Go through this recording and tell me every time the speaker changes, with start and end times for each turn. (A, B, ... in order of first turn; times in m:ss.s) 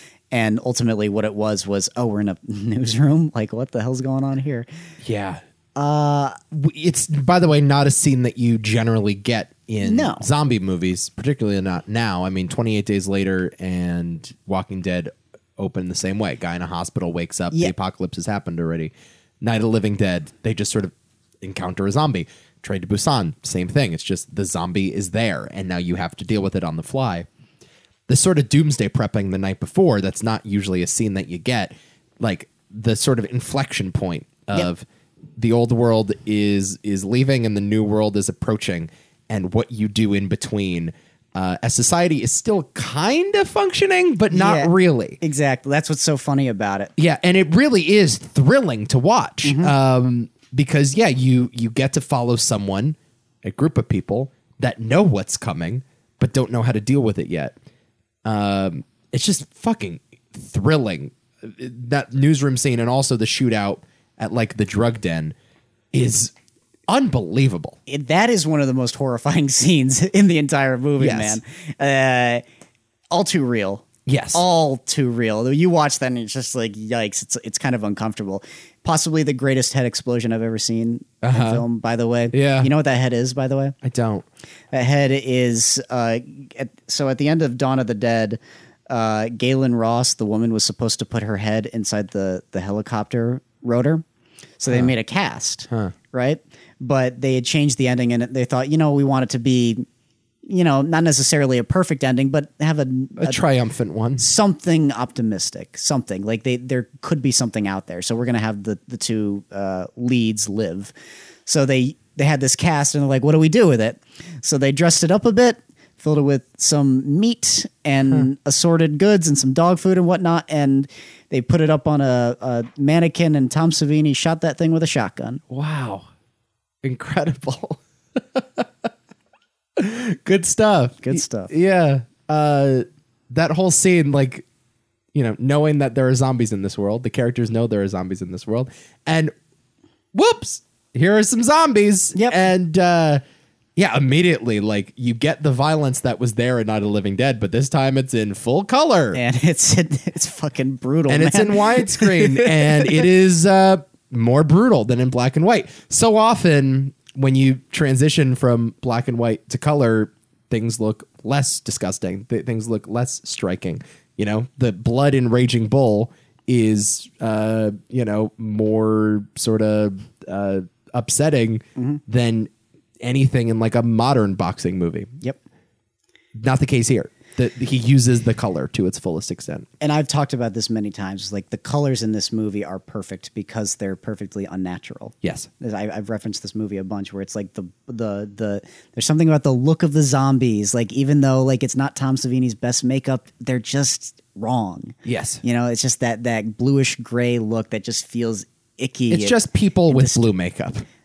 0:00.3-0:04.7 A
0:05.0-0:05.4 B
0:05.8-0:06.4 A
0:06.5-0:27.3 B
0:09.8-0:10.3 A
0:28.1-0:34.8 B
0:35.4-0:45.2 B
0:44.3-0:46.9 A
0:47.0-0:57.5 B
0:49.4-0:49.7 A
0:58.2-1:05.3 B
1:05.9-1:06.3 B
1:06.9-1:07.8 B
1:07.9-1:12.4 A
1:11.0-1:11.4 B
1:13.1-1:23.8 A
1:14.0-1:14.4 B
1:21.2-1:21.6 B
1:22.3-1:22.7 B
1:23.8-1:24.2 B
1:24.7-1:34.0 A
1:34.6-1:39.8 A
1:40.5-1:43.4 A
1:43.2-1:44.2 B
1:44.2-1:50.9 A
1:51.4-2:05.4 A
2:05.5-2:06.0 B
2:06.8-2:08.7 B
2:09.8-2:14.4 B
2:11.0-2:11.5 A
2:15.1-2:19.3 B
2:20.1-2:23.2 B
2:22.1-2:22.4 A
2:23.8-2:29.2 B
2:29.1-2:33.0 A
2:31.1-2:55.1 B
2:56.3-2:59.7 B
2:59.8-3:20.2 A
3:05.2-3:05.5 B
3:15.0-3:15.4 B
3:19.1-3:20.8 B